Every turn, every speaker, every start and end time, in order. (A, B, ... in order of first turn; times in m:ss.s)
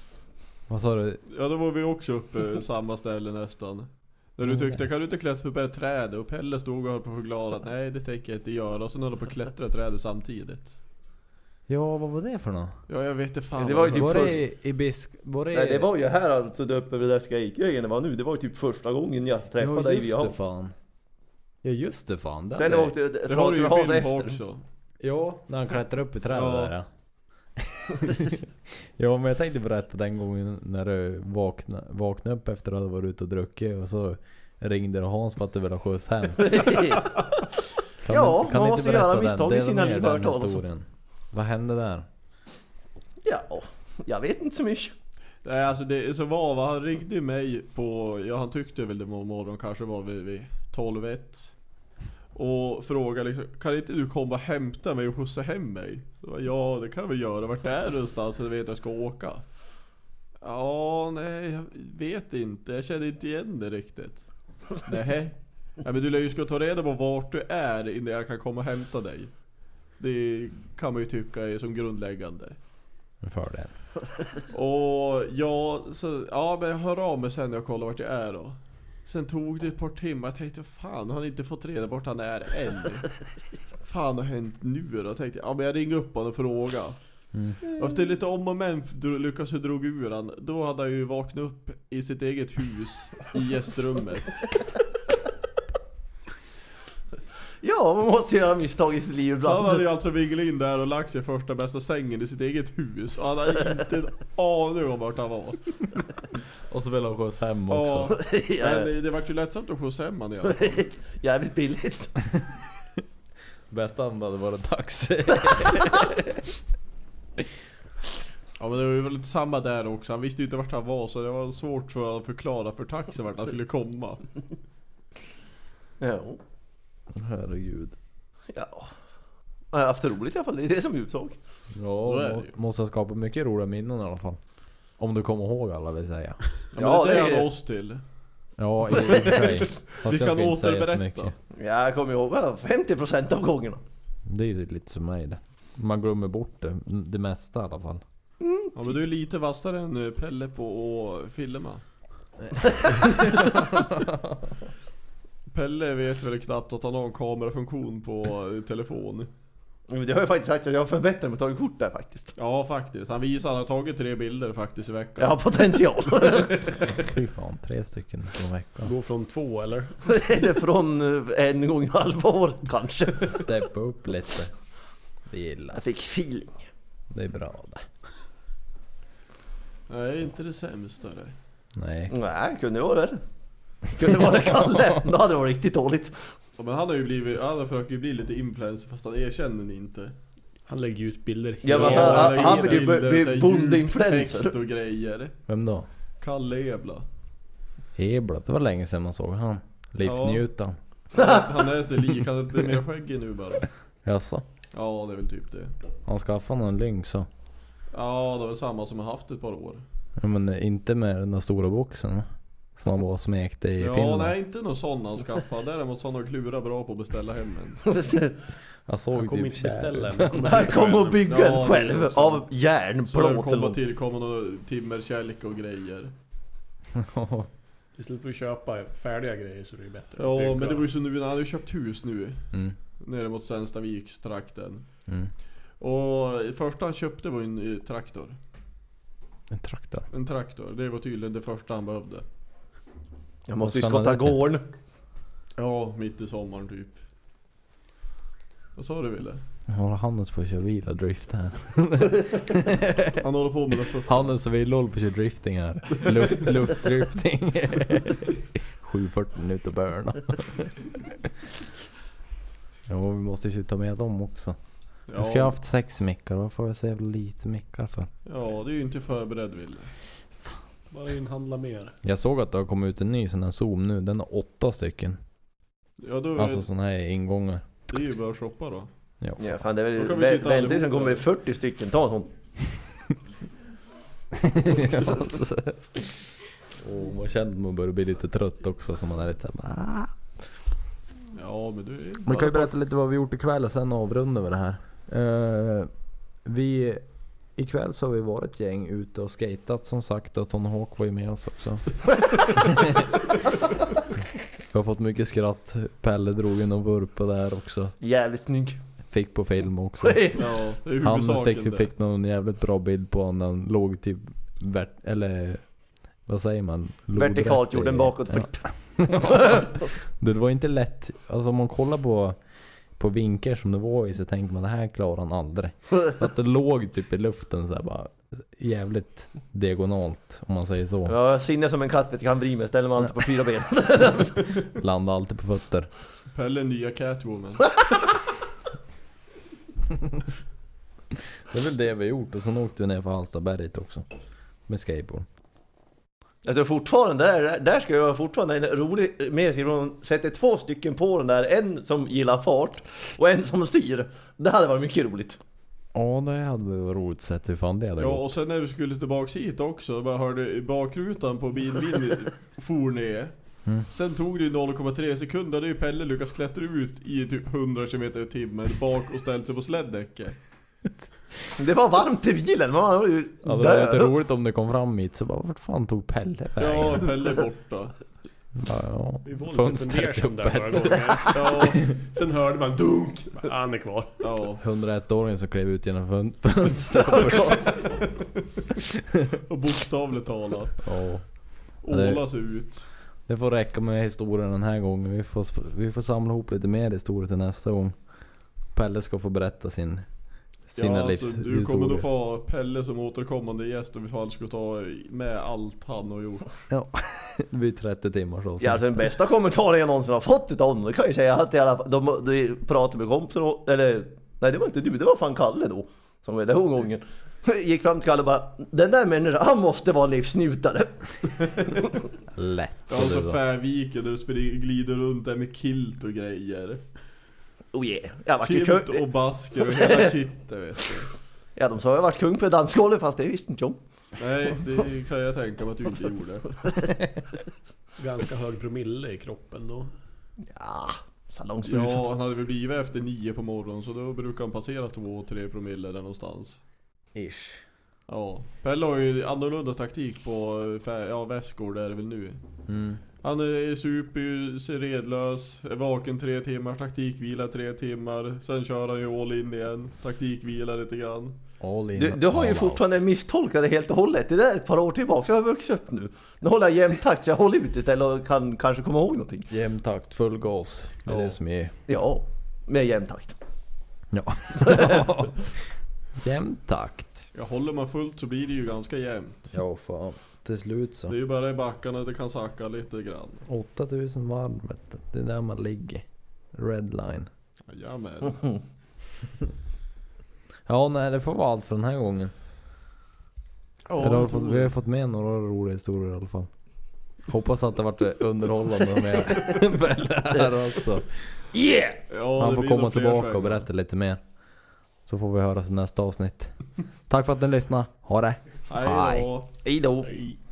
0:00.7-0:01.2 A
0:01.3-0:10.8 B
0:04.4-0:04.8 A
0:11.7-0:12.8 A
0:12.9-0:14.4 B
0:13.6-0:14.4 C
0:13.9-0:15.9 A
0:15.5-0:20.4 C
0:19.6-0:20.8 A
0:21.6-0:22.9 A
0:22.6-0:24.4 C
0:23.3-0:24.6 B
0:25.0-0:26.9 A
0:26.3-0:26.7 B
0:27.6-0:36.9 A
0:36.4-0:37.2 C
0:38.0-0:42.1 A
0:38.1-0:40.6 C
0:43.2-0:44.9 C
0:45.4-0:51.5 B
0:52.3-0:59.4 B
1:00.4-1:04.3 B
1:04.8-1:09.3 B
1:10.0-1:12.6 B
1:13.2-1:13.7 A
1:14.5-1:23.1 B
1:23.8-1:27.0 B
1:27.6-1:34.5 B
1:37.6-1:39.8 C
1:39.4-1:45.9 B
1:46.7-1:48.2 A
1:47.7-1:50.8 B
1:48.2-1:48.9 C
1:50.4-1:52.2 C
1:53.7-1:56.4 A
1:58.6-2:04.3 B
2:06.0-2:06.4 C
2:07.1-2:08.0 A
2:08.5-2:08.9 C
2:09.7-2:11.4 C
2:11.8-2:14.4 A
2:12.1-2:12.5 B
2:15.0-2:16.4 A
2:16.7-2:18.0 B
2:16.8-2:17.5 C
2:18.6-2:21.4 A
2:19.0-2:19.5 C
2:19.0-2:21.3 B
2:21.6-2:23.8 C
2:24.3-2:28.0 A
2:28.4-2:28.8 C
2:28.8-2:31.8 B
2:32.6-2:32.9 C
2:33.0-2:34.4 A
2:35.5-2:39.3 B
2:39.9-2:42.3 C
2:42.4-2:45.4 B
2:45.2-2:46.9 C
2:46.9-2:48.9 A
2:48.8-2:50.0 D
2:50.0-2:53.4 C
2:53.3-2:54.5 A
2:55.3-2:56.0 A
2:55.7-2:56.7 C
2:57.1-2:57.8 A
2:59.9-3:01.4 B
3:01.8-3:02.1 A
3:02.1-3:03.2 C
3:04.0-3:06.3 C
3:06.6-3:10.1 B
3:10.7-3:12.8 D
3:11.6-3:14.5 C
3:11.7-3:15.4 B
3:15.5-3:15.9 A
3:16.2-3:17.0 B
3:18.0-3:20.8 A
3:20.0-3:20.4 B
3:21.1-3:23.7 B
3:21.2-3:21.5 C
3:24.0-3:24.5 A
3:24.7-3:25.7 B
3:26.1-3:27.3 A
3:27.9-3:29.8 B
3:30.2-3:34.3 A
3:33.8-3:37.9 B
3:37.9-3:38.4 C
3:38.9-3:40.5 A
3:39.2-3:41.1 D
3:40.4-3:43.8 C
3:40.6-3:42.4 B
3:43.1-3:46.1 B
3:46.9-3:47.5 A
3:48.0-3:50.9 D
3:50.2-3:52.4 B
3:53.0-3:54.8 B
3:55.8-3:58.4 B
3:59.5-4:00.1 A
4:00.1-4:02.2 B
4:03.5-4:04.6 C
4:03.6-4:04.4 A
4:05.6-4:07.0 B
4:08.8-4:09.4 B
4:09.7-4:13.2 A
4:13.2-4:14.4 B
4:14.0-4:21.3 A
4:22.9-4:24.6 A
4:25.1-4:25.6 B
4:25.2-4:28.1 A
4:28.3-4:29.9 B
4:30.9-4:32.0 D
4:32.0-4:35.2 A
4:36.0-4:36.6 B
4:36.4-4:38.0 A
4:37.9-4:38.9 B
4:39.2-4:39.6 A
4:39.4-4:42.3 C
4:40.0-4:41.3 B
4:44.3-4:46.1 A
4:46.8-4:50.2 A
4:51.4-4:52.7 B
4:52.2-4:55.9 A
4:56.4-4:57.0 A
4:57.6-5:03.1 A
5:04.7-5:07.9 A
5:08.0-5:08.8 C
5:09.1-5:10.3 A
5:10.0-5:10.4 C
5:10.4-5:11.9 B
5:11.0-5:15.7 A
5:16.3-5:22.4 A
5:17.2-5:18.6 C
5:19.2-5:19.7 C
5:23.0-5:31.2 A
5:31.1-5:34.6 C
5:34.7-5:35.9 A
5:36.3-5:37.8 B
5:41.5-5:44.1 A
5:44.7-5:45.3 A
5:46.4-5:55.4 C
5:55.9-5:58.3 A
5:58.0-6:03.3 B
6:03.8-6:10.4 B
6:11.6-6:14.1 C
6:13.4-6:17.1 A
6:16.6-6:18.0 B
6:18.6-6:21.4 A
6:19.2-6:24.2 D
6:21.3-6:21.9 B
6:24.2-6:24.6 B
6:24.6-6:27.9 A
6:27.3-6:27.7 C
6:29.4-6:30.9 B
6:30.8-6:31.3 A
6:31.8-6:32.9 B
6:31.9-6:32.3 A
6:33.3-6:38.0 A
6:38.7-6:40.1 A
6:40.7-6:42.1 A
6:40.8-6:46.6 B
6:46.7-6:49.1 A
6:48.6-7:01.9 C
7:02.3-7:03.4 A
7:02.9-7:06.8 B
7:07.7-7:09.0 C
7:08.4-7:11.1 B
7:09.7-7:10.1 C
7:11.6-7:13.8 C
7:14.2-7:16.8 B
7:18.0-7:19.9 D
7:20.5-7:22.1 C
7:21.7-7:26.6 B
7:27.2-7:27.6 A
7:28.1-7:32.4 B
7:32.7-7:33.0 A
7:33.2-7:41.4 B
7:41.6-7:42.8 A
7:42.0-7:49.5 C
7:49.5-7:51.7 A
7:51.1-7:51.4 B
7:51.9-7:53.4 C
7:54.1-7:55.6 A
7:54.6-7:55.1 C
7:56.2-7:57.3 A
7:57.3-7:59.5 B
7:59.5-8:01.2 A
8:01.1-8:03.5 B
8:03.5-8:07.3 A
8:07.7-8:08.6 B
8:10.7-8:12.3 A
8:13.9-8:14.7 B
8:14.0-8:16.5 A
8:17.3-8:21.1 A
8:21.5-8:22.0 C
8:22.1-8:23.7 B
8:22.4-8:24.2 A
8:25.0-8:26.6 A
8:27.1-8:29.3 A
8:28.7-8:29.5 B
8:29.6-8:30.4 C